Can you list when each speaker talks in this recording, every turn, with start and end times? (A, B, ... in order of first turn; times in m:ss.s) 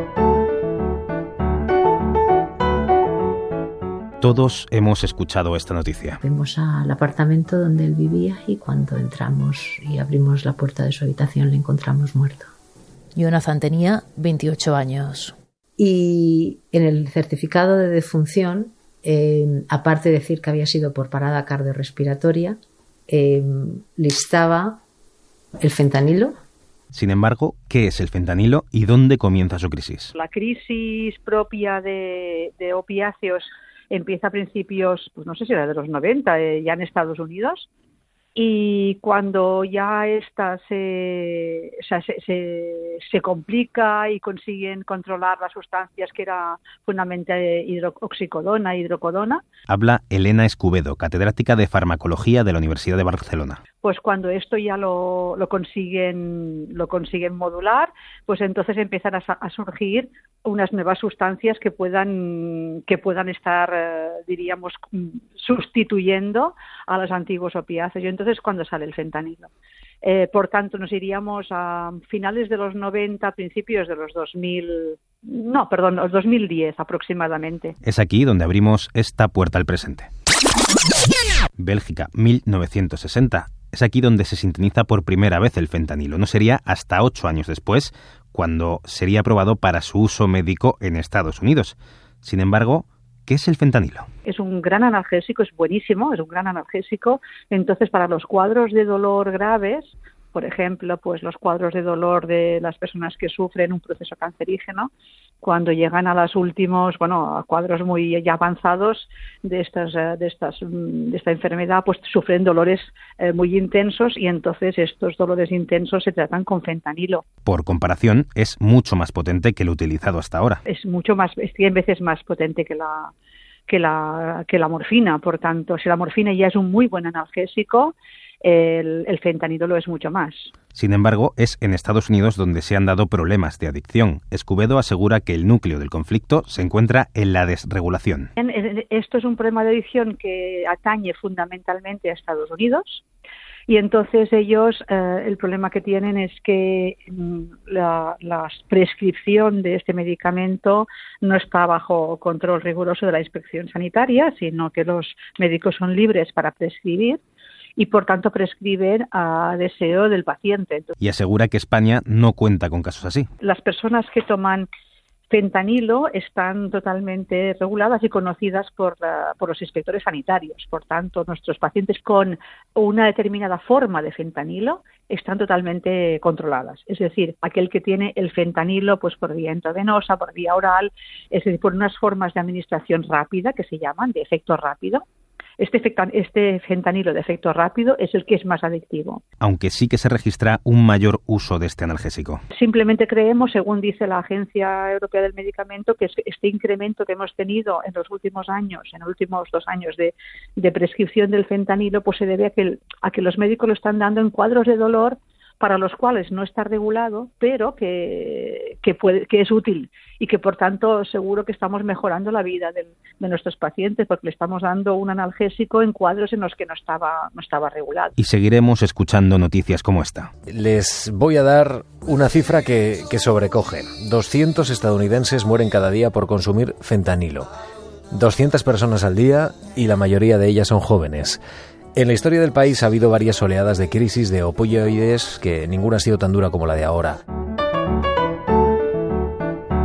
0:04.2-0:06.2 A
0:06.2-0:12.5 B
0:13.2-0:15.4 C
0:15.8-0:24.8 B
0:25.6-0:26.4 B
0:26.9-0:30.1 A
0:30.2-0:37.7 D
0:38.4-0:49.4 D
0:49.7-0:53.6 A
0:53.8-1:09.5 D
1:10.0-1:17.8 D
1:17.8-1:20.1 A
1:21.6-1:34.0 A
1:34.2-1:44.9 D
1:45.4-1:57.2 D
1:57.5-2:00.6 A
2:00.7-2:03.1 D
2:03.7-2:10.5 D
2:10.7-2:18.3 A
2:18.4-2:23.0 D
2:23.7-2:37.2 D
2:37.8-2:40.9 D
2:41.0-2:43.3 A
2:43.4-2:44.7 D
2:45.3-3:05.0 D
3:05.6-3:09.2 D
3:09.4-3:12.4 A
3:12.5-3:38.2 D
3:38.2-3:40.3 A
3:40.5-3:47.5 E
3:48.1-3:51.4 E
3:52.0-3:57.2 E